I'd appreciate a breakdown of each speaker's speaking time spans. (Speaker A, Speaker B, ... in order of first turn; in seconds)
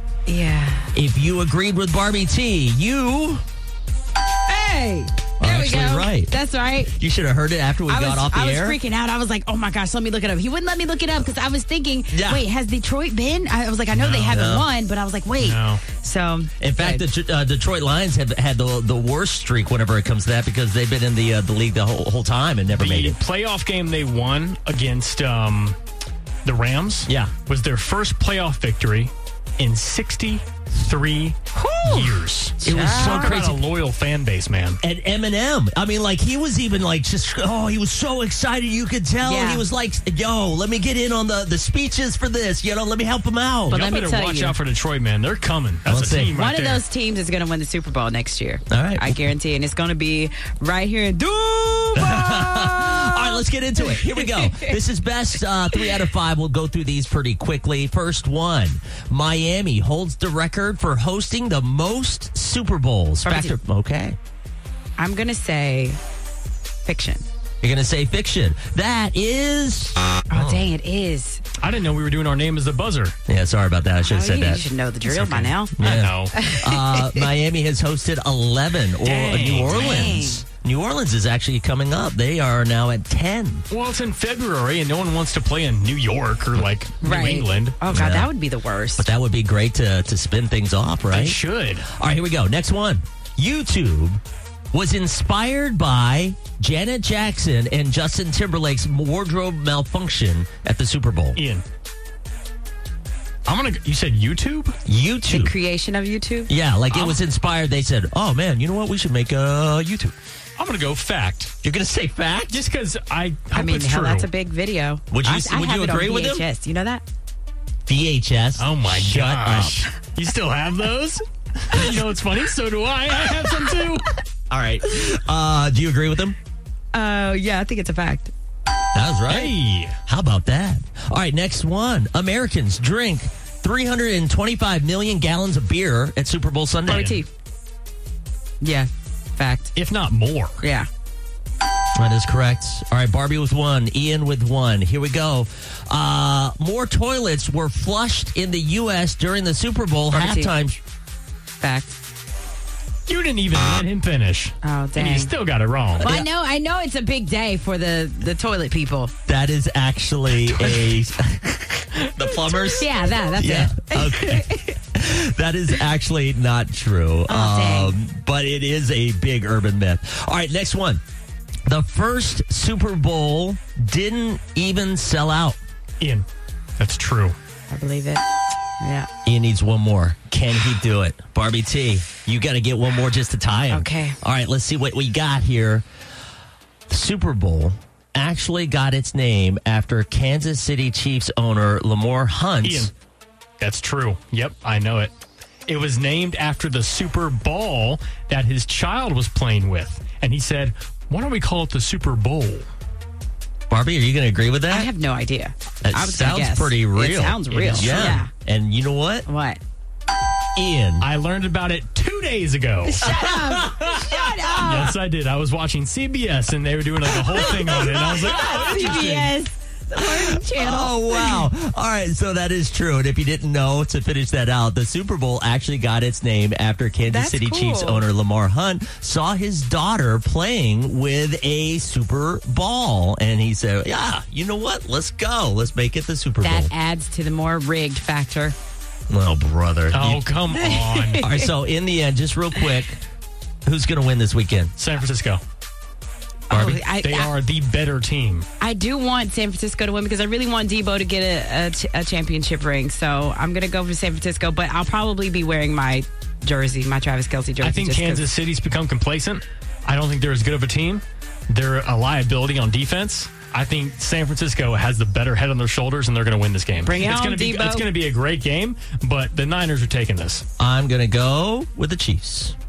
Speaker A: 0.3-0.9, 4.5-6.9, 7.9-17.1, 31.6-33.5, 39.2-39.7, 43.7-44.5, 46.3-54.8, 63.2-63.6, 65.0-66.0, 66.8-67.2, 70.3-71.4, 74.0-77.3, 79.0-80.5, 87.0-89.1, 105.3-106.5, 113.5-117.0, 123.3-123.7, 126.9-128.3, 136.9-137.3, 138.6-139.7, 140.6-140.9, 150.1-150.6, 151.6-151.9, 154.6-155.3, 156.0-159.1, 162.5-164.8, 167.3-167.9, 177.7-178.2, 178.8-179.1, 183.7-184.2, 204.7-208.3, 209.3-209.6, 212.8-215.0, 217.4-221.5, 227.1-228.1, 236.4-238.6, 240.5-241.5, 246.5-247.3, 248.6-258.3, 266.8-267.9
Speaker B: 0.9-3.4, 5.4-6.3, 6.8-8.8, 12.1-12.4, 14.3-14.7, 16.6-23.2, 27.1-27.3, 32.6-33.6, 34.8-43.8, 45.9-46.3, 48.7-49.3, 52.0-64.2, 67.6-70.7, 73.3-74.6, 75.8-83.7, 87.9-88.3, 89.0-91.4, 92.0-94.2, 94.7-101.4, 104.9-105.5, 106.5-110.2, 111.6-112.6, 115.1-116.5, 117.9-119.8, 124.5-126.4, 128.9-129.5, 130.1-137.2, 142.0-150.8, 156.0-156.3, 159.3-171.0, 171.7-175.6, 179.2-185.8, 186.9-192.9, 203.7-204.9, 205.8-209.3, 210.6-211.1, 213.1-214.0, 217.2-218.7, 220.0-236.7, 239.1-240.3, 241.2-243.0, 243.7-244.7, 246.5-246.8, 270.6-272.6
Speaker C: 13.9-14.4, 15.4-15.8, 22.7-25.8, 26.4-34.8, 43.7-46.8, 71.6-73.2, 75.0-76.4, 79.1-80.1, 83.7-87.8, 91.1-91.9, 101.4-101.6, 103.5-104.8, 106.9-107.2, 110.6-111.5, 112.5-114.3, 118.6-124.1, 129.3-130.0, 136.9-137.2, 139.8-140.7, 153.1-156.1, 160.4-160.9, 162.2-162.7, 176.0-176.3, 176.8-177.4, 192.6-192.9, 193.6-195.1, 195.7-202.7, 207.5-208.2, 211.0-213.2, 213.8-219.3, 239.9-241.2, 244.8-245.4, 246.5-248.5, 257.6-270.4